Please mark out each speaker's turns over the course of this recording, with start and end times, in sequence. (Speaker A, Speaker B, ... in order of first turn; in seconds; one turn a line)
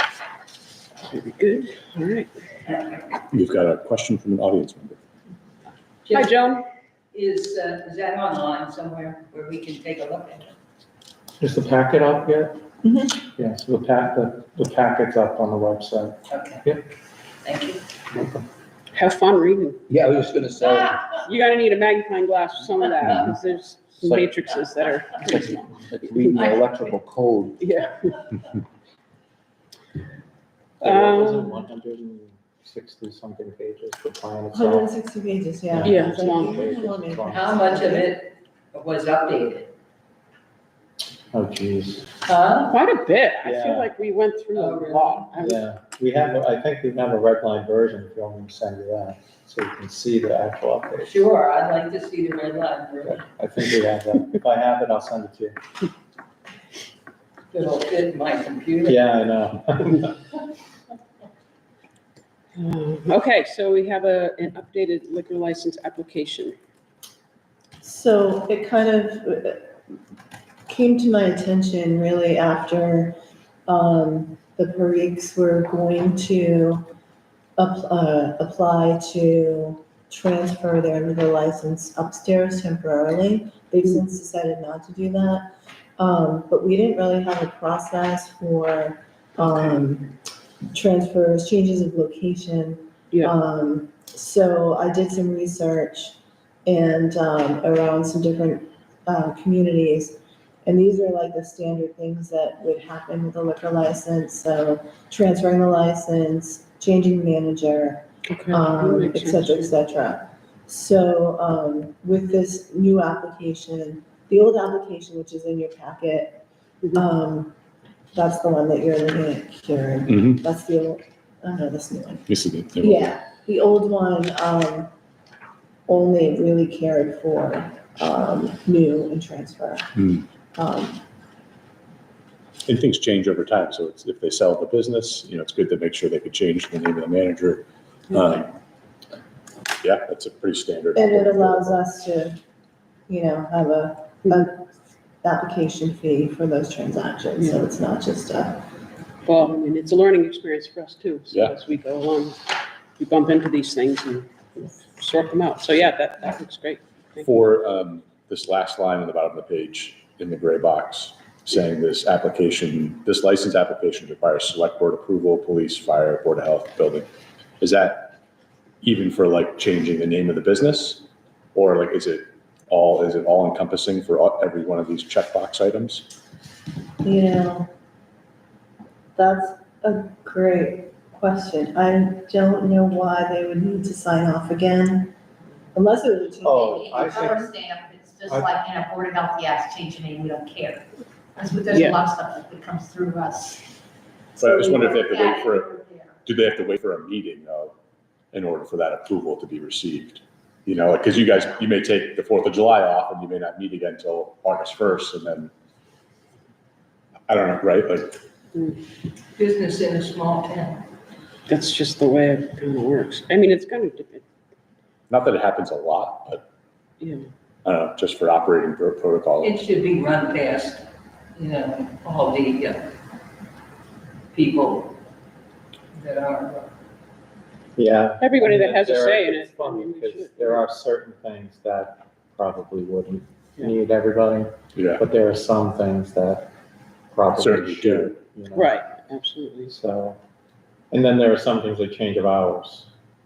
Speaker A: 1.1-2.3
Speaker B: 3.3-5.0
Speaker C: 6.1-6.3
Speaker A: 6.1-6.7
Speaker C: 7.1-10.6
Speaker D: 11.4-12.6
Speaker E: 12.8-13.2
Speaker D: 13.3-16.9
Speaker C: 16.3-16.6
Speaker C: 17.4-17.8
Speaker A: 18.9-19.9
Speaker F: 19.9-21.0
Speaker A: 21.1-25.7
Speaker F: 26.1-27.5
Speaker A: 26.3-26.6
Speaker A: 27.6-28.4
Speaker D: 30.8-34.9
Speaker A: 30.8-31.6
Speaker E: 34.5-38.1
Speaker D: 35.7-37.9
Speaker A: 35.8-36.7
Speaker C: 37.3-39.7
Speaker D: 41.3-42.1
Speaker C: 42.3-42.8
Speaker A: 42.7-45.6
Speaker D: 43.4-43.9
Speaker C: 44.6-45.3
Speaker D: 45.4-51.1
Speaker C: 51.0-53.2
Speaker D: 53.1-55.5
Speaker C: 57.5-59.1
Speaker D: 58.9-60.1
Speaker A: 62.6-66.5
Speaker E: 67.8-69.8
Speaker E: 70.7-76.9
Speaker E: 77.6-90.2
Speaker E: 90.7-117.5
Speaker A: 108.3-109.6
Speaker E: 118.1-124.9
Speaker B: 120.1-120.4
Speaker B: 122.3-123.0
Speaker E: 125.9-131.0
Speaker B: 130.0-130.2
Speaker B: 132.7-138.5
Speaker B: 139.8-141.8
Speaker E: 140.9-142.4
Speaker E: 143.1-144.7
Speaker E: 145.2-148.7
Speaker A: 147.4-147.6
Speaker A: 149.2-152.4
Speaker A: 153.0-157.3
Speaker B: 157.2-167.1
Speaker B: 167.6-168.2
Speaker B: 168.8-176.1
Speaker E: 177.0-177.7
Speaker E: 179.2-185.2
Speaker E: 185.7-186.8
Speaker D: 186.4-187.5
Speaker G: 186.5-190.9
Speaker G: 191.4-193.7
Speaker A: 191.7-192.0
Speaker G: 194.4-196.2
Speaker B: 194.4-195.7
Speaker B: 196.3-197.7
Speaker B: 198.3-205.5
Speaker B: 207.3-208.2
Speaker C: 209.4-210.9
Speaker A: 211.5-214.2
Speaker B: 215.1-216.4
Speaker B: 217.6-219.6
Speaker C: 219.4-222.9
Speaker C: 224.3-225.0
Speaker C: 225.9-226.7
Speaker D: 227.8-236.5
Speaker A: 228.2-230.7
Speaker B: 234.8-235.0
Speaker D: 237.1-238.8
Speaker B: 237.4-238.2
Speaker A: 238.5-239.7
Speaker D: 239.7-240.2
Speaker D: 240.9-242.9